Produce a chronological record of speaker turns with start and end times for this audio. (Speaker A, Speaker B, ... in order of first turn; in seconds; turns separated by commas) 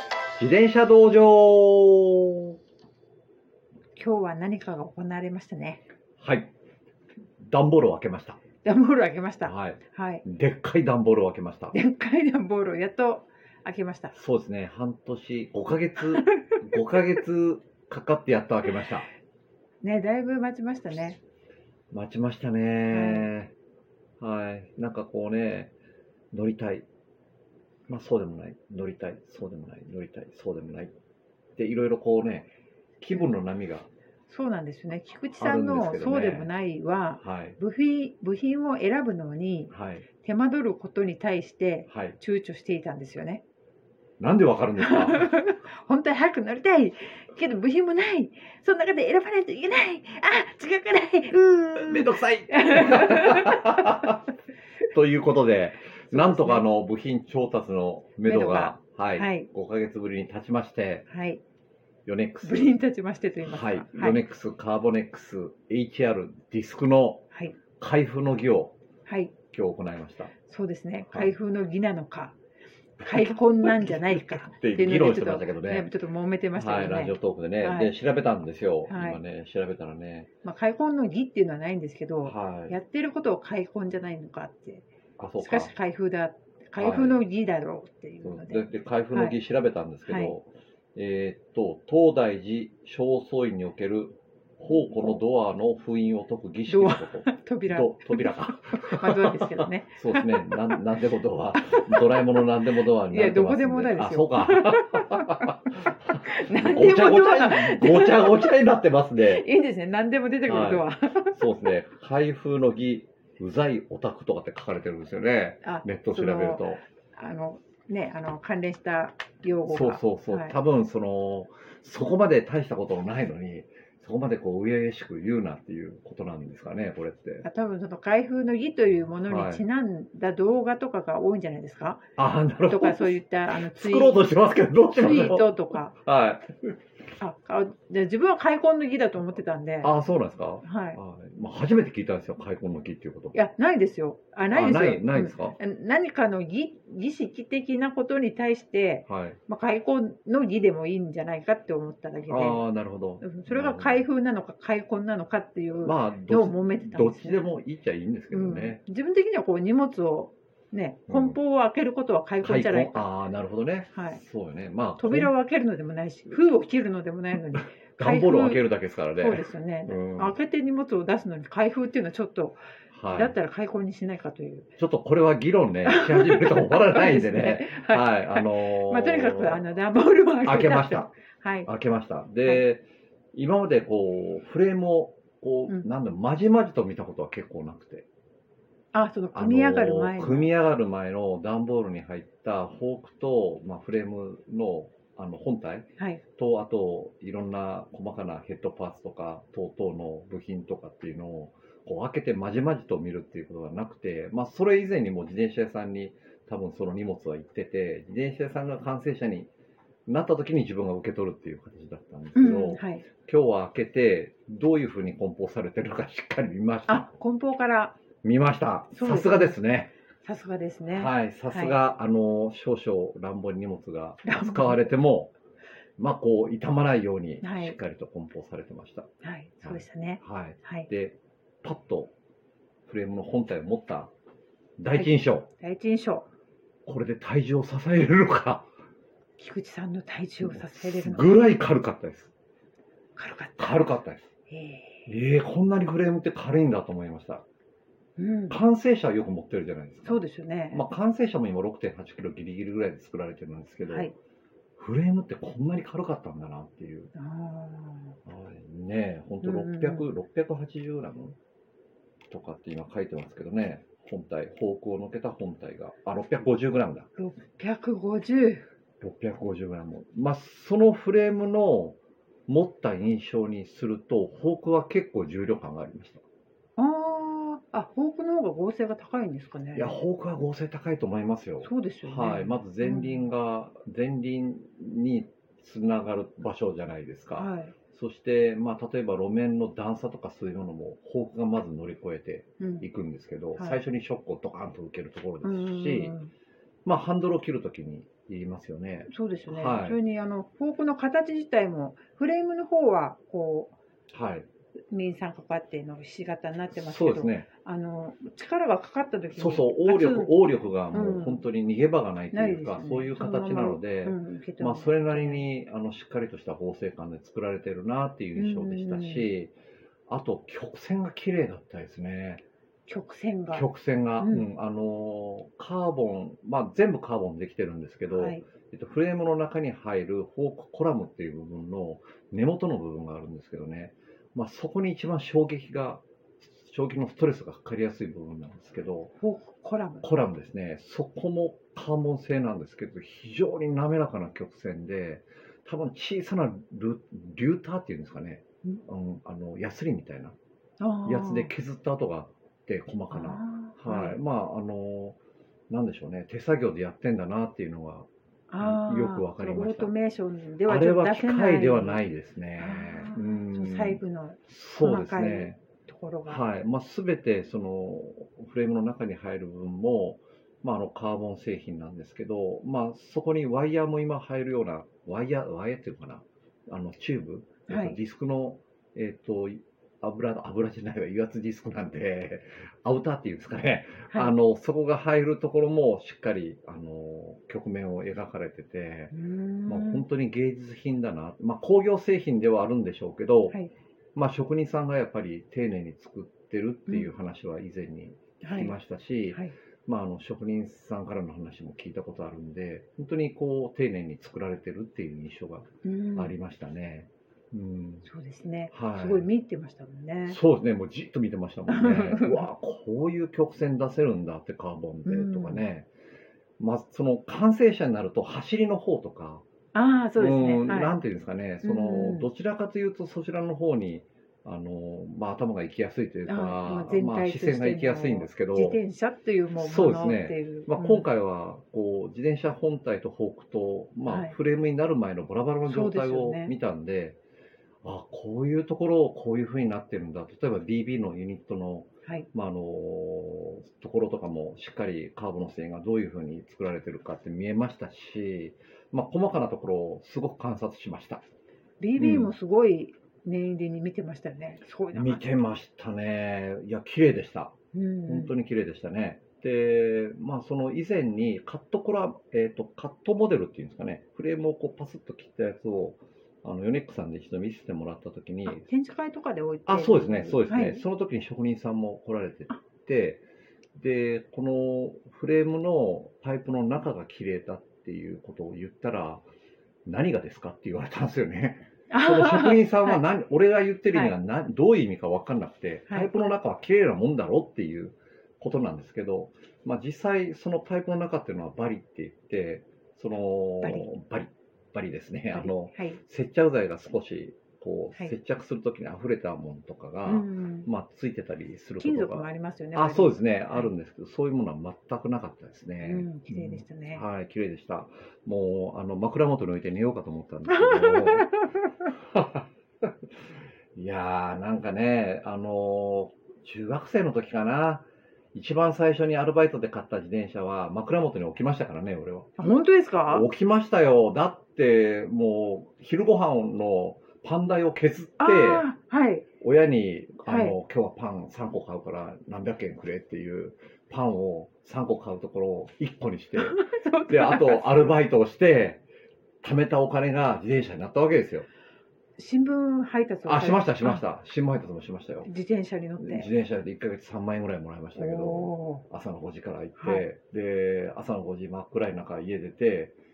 Speaker A: 0.4-2.5, Speaker B: 4.0-5.8, Speaker A: 6.2-6.5, Speaker A: 7.4-8.4, Speaker B: 8.6-10.2, Speaker A: 9.4-11.7, Speaker B: 11.7-14.1, Speaker A: 14.1-19.1, Speaker B: 19.8-21.2, Speaker A: 21.9-23.5, Speaker B: 22.9-23.3, Speaker A: 24.2-25.7, Speaker A: 26.3-26.9, Speaker A: 27.9-30.9, Speaker A: 31.6-32.5, Speaker A: 33.0-33.9, Speaker B: 34.3-43.4, Speaker A: 35.4-36.5, Speaker A: 37.2-37.6, Speaker A: 39.7-40.0, Speaker A: 41.9-42.1, Speaker A: 44.2-45.3, Speaker B: 44.8-54.1, Speaker A: 51.8-54.2, Speaker A: 54.9-61.0, Speaker B: 56.1-56.6, Speaker B: 58.2-59.5, Speaker B: 61.1-61.4, Speaker A: 62.0-62.7, Speaker B: 62.4-64.2, Speaker A: 63.4-67.2, Speaker A: 67.8-68.7, Speaker B: 69.0-69.3, Speaker A: 69.5-70.3, Speaker B: 70.5-72.3, Speaker B: 73.0-77.9, Speaker A: 73.0-75.9, Speaker A: 76.5-80.3, Speaker B: 78.9-79.2, Speaker B: 80.4-84.8, Speaker A: 82.2-82.8, Speaker A: 85.2-85.7, Speaker B: 85.4-89.3, Speaker A: 86.8-87.2, Speaker A: 88.2-109.5, Speaker B: 90.1-90.3, Speaker B: 94.7-95.2, Speaker B: 96.7-100.8, Speaker B: 101.6-102.2, Speaker B: 103.1-108.6, Speaker B: 109.2-111.4, Speaker A: 110.5-116.8, Speaker B: 115.6-120.5, Speaker A: 119.7-127.5, Speaker B: 127.4-132.0, Speaker A: 129.2-129.6, Speaker A: 132.2-136.7, Speaker B: 132.7-134.4, Speaker B: 134.9-135.9, Speaker B: 137.2-139.9, Speaker A: 139.8-143.4, Speaker B: 140.6-141.0, Speaker B: 143.3-152.6, Speaker A: 144.5-145.6, Speaker A: 149.1-149.4, Speaker A: 152.3-154.1, Speaker B: 153.2-157.4, Speaker A: 155.8-158.8, Speaker B: 158.3-163.1, Speaker A: 161.1-161.4, Speaker A: 162.4-165.3, Speaker B: 163.9-164.2, Speaker B: 165.0-172.6, Speaker A: 167.8-170.3, Speaker A: 172.9-173.3, Speaker B: 173.1-174.7, Speaker A: 174.8-179.7, Speaker B: 175.8-181.7, Speaker A: 180.4-181.1, Speaker A: 181.7-188.1, Speaker B: 188.9-190.5, Speaker A: 189.3-209.5, Speaker A: 210.1-217.1, Speaker B: 212.3-213.1, Speaker B: 216.9-217.9, Speaker A: 218.2-219.9, Speaker B: 218.9-219.6, Speaker B: 220.2-221.8, Speaker A: 220.9-225.3, Speaker B: 224.2-224.9, Speaker A: 226.0-229.1, Speaker B: 227.4-227.8, Speaker B: 229.2-230.9, Speaker A: 229.6-232.1, Speaker A: 232.9-234.1, Speaker A: 234.8-235.5, Speaker B: 234.9-236.2, Speaker A: 236.8-238.7, Speaker B: 239.4-241.3, Speaker A: 240.4-242.3, Speaker B: 243.2-243.9, Speaker A: 243.6-244.3, Speaker B: 244.5-245.1, Speaker A: 245.1-247.4, Speaker B: 248.2-248.6, Speaker A: 248.5-254.1, Speaker B: 250.0-250.9, Speaker B: 253.8-254.1, Speaker A: 254.8-257.1, Speaker B: 257.1-258.1, Speaker A: 258.2-261.4, Speaker B: 259.4-260.1, Speaker A: 262.3-267.1, Speaker B: 267.1-268.6, Speaker A: 269.0-276.2, Speaker B: 276.8-280.0, Speaker A: 279.7-296.1, Speaker B: 281.6-283.3, Speaker B: 287.3-287.7, Speaker B: 292.6-292.9, Speaker B: 295.4-296.3, Speaker A: 296.8-300.0, Speaker B: 299.1-303.7, Speaker A: 304.1-304.4, Speaker B: 304.9-311.4, Speaker A: 306.7-307.5, Speaker A: 309.3-319.5, Speaker B: 312.3-315.4, Speaker B: 318.4-319.3, Speaker A: 320.1-322.4, Speaker B: 322.9-323.6, Speaker A: 323.5-339.1, Speaker B: 324.2-324.5, Speaker B: 328.1-328.4, Speaker B: 339.2-340.0, Speaker A: 340.0-350.3, Speaker B: 350.8-351.5, Speaker A: 351.1-355.2, Speaker B: 353.1-354.2, Speaker A: 355.7-358.1, Speaker B: 358.5-362.0, Speaker A: 358.6-359.9, Speaker A: 360.6-365.6, Speaker B: 362.6-366.4, Speaker A: 366.2-389.1, Speaker B: 377.7-378.0, Speaker B: 389.1-390.1, Speaker A: 389.7-393.6, Speaker A: 394.1-408.0, Speaker B: 398.4-398.7, Speaker B: 405.8-406.3, Speaker B: 408.0-410.4, Speaker A: 408.7-409.3, Speaker A: 410.3-415.9, Speaker B: 411.7-412.5, Speaker B: 415.1-415.6, Speaker A: 416.6-419.4, Speaker B: 419.7-420.9, Speaker A: 420.2-428.8, Speaker B: 421.6-422.3, Speaker B: 426.3-431.0, Speaker A: 429.6-437.2, Speaker B: 434.1-434.3, Speaker B: 435.6-436.5, Speaker A: 437.8-451.2, Speaker B: 451.8-455.2, Speaker A: 452.0-452.3, Speaker A: 454.9-457.5, Speaker B: 457.7-458.3, Speaker A: 458.1-468.6, Speaker B: 468.4-470.8, Speaker A: 469.6-473.2, Speaker A: 473.8-479.2, Speaker A: 479.9-511.3, Speaker B: 481.9-483.0, Speaker B: 493.6-493.9, Speaker B: 495.3-496.0, Speaker B: 500.1-500.7, Speaker B: 501.8-503.7, Speaker B: 505.8-507.0, Speaker B: 510.5-511.7, Speaker A: 512.0-512.9, Speaker A: 513.7-522.5, Speaker B: 522.4-523.3, Speaker A: 523.1-528.7, Speaker B: 528.2-529.2, Speaker A: 529.4-538.8, Speaker B: 530.3-530.6, Speaker B: 536.4-537.9, Speaker A: 539.4-541.5, Speaker B: 542.2-544.0, Speaker A: 543.2-545.3, Speaker B: 545.2-546.3, Speaker A: 546.0-552.9, Speaker B: 548.0-548.8, Speaker B: 549.8-550.0